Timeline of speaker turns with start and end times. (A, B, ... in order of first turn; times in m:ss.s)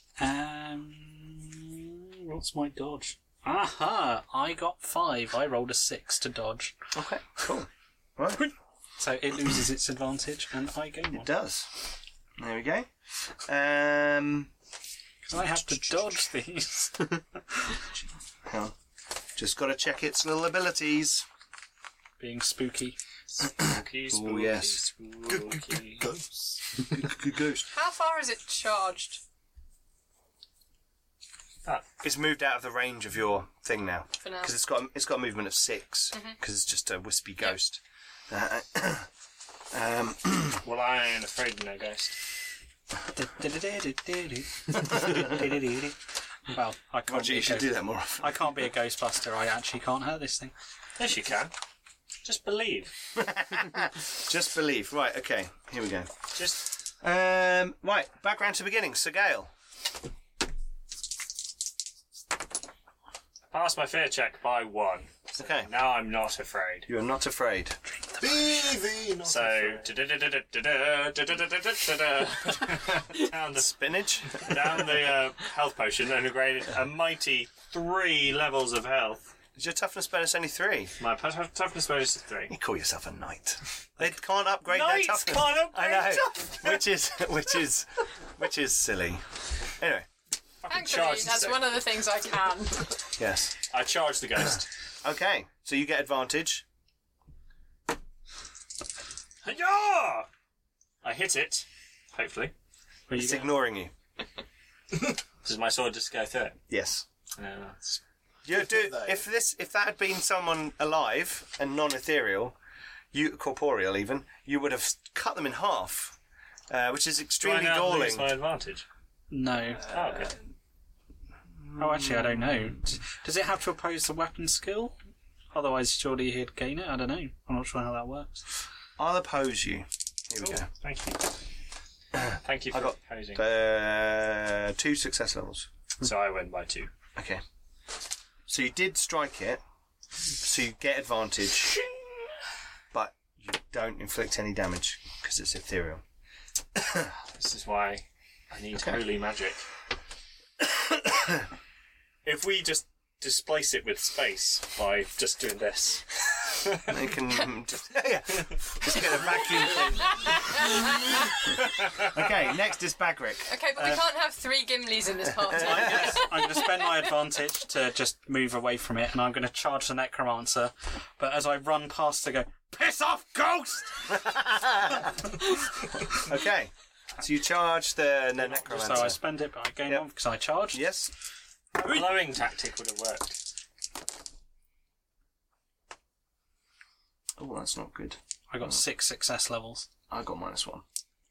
0:00.2-0:06.8 A
0:06.9-0:08.5 B
0:09.0-0:11.3 A
0:11.1-0:11.7 B
0:12.4-0:12.9 B
0:13.4-0:14.5 B
0:15.2-0:17.8 A
0:15.6-0:16.1 B
0:18.4-0:18.7 B
0:19.4-0:21.2 B
0:22.2-0:23.0 A
0:23.3-0:26.1 C
0:24.1-0:24.8 B
0:25.3-0:27.0 D
0:26.8-0:27.7 B
0:27.7-0:29.2 E
0:32.0-0:39.1 B
0:34.2-0:34.5 E
0:39.7-0:40.6 B
0:40.6-0:42.2 C
0:43.1-0:50.5 A
0:45.0-0:45.3 B
0:47.1-0:48.6 B
0:51.0-0:51.5 C
0:52.2-0:52.9 C
0:53.2-0:56.1 B
0:57.0-0:59.5 B
1:03.5-1:06.9 C
1:05.4-1:05.7 B
1:06.9-1:07.8 B
1:08.2-1:09.9 D
1:09.2-1:19.3 C
1:13.6-1:14.7 B
1:19.6-1:20.9 B
1:21.0-1:22.5 C
1:22.5-1:30.1 B
1:24.6-1:26.8 C
1:30.6-1:31.8 C
1:30.7-1:32.9 E
1:33.2-1:33.5 B
1:33.7-1:34.6 C
1:35.0-1:36.6 B
1:39.4-1:40.3 C
1:41.0-1:42.5 C
1:43.1-1:43.6 A
1:43.1-1:43.9 B
1:45.4-1:46.6 C
1:46.7-1:47.0 B
1:47.4-1:48.0 C
1:48.4-1:52.6 B
1:48.5-1:49.2 D
1:53.1-1:56.2 B
1:56.7-1:58.3 B
1:57.4-1:58.8 C
1:59.3-1:59.9 A
1:59.9-2:00.3 C
2:01.7-2:02.8 B
2:01.8-2:05.0 A
2:05.5-2:08.4 A
2:09.0-2:10.7 B
2:10.4-2:11.3 C
2:12.2-2:15.7 B
2:12.4-2:13.4 C
2:16.0-2:16.9 C
2:17.2-2:17.4 B
2:18.5-2:19.6 B
2:20.4-2:21.8 B
2:22.9-2:26.0 B
2:26.8-2:27.1 B
2:27.3-2:29.6 C
2:28.8-2:29.0 B
2:32.2-2:36.8 C
2:36.8-2:40.3 B
2:39.2-2:41.4 E
2:42.0-2:44.0 B
2:43.5-2:47.1 E
2:45.5-2:54.2 A
2:45.5-2:46.1 B
2:54.1-2:55.1 B
2:56.1-2:59.2 B
2:58.5-3:00.8 A
3:00.7-3:01.1 B
3:01.8-3:03.4 C
3:01.8-3:02.1 A
3:07.4-3:08.8 B
3:08.5-3:09.9 A
3:10.1-3:10.8 B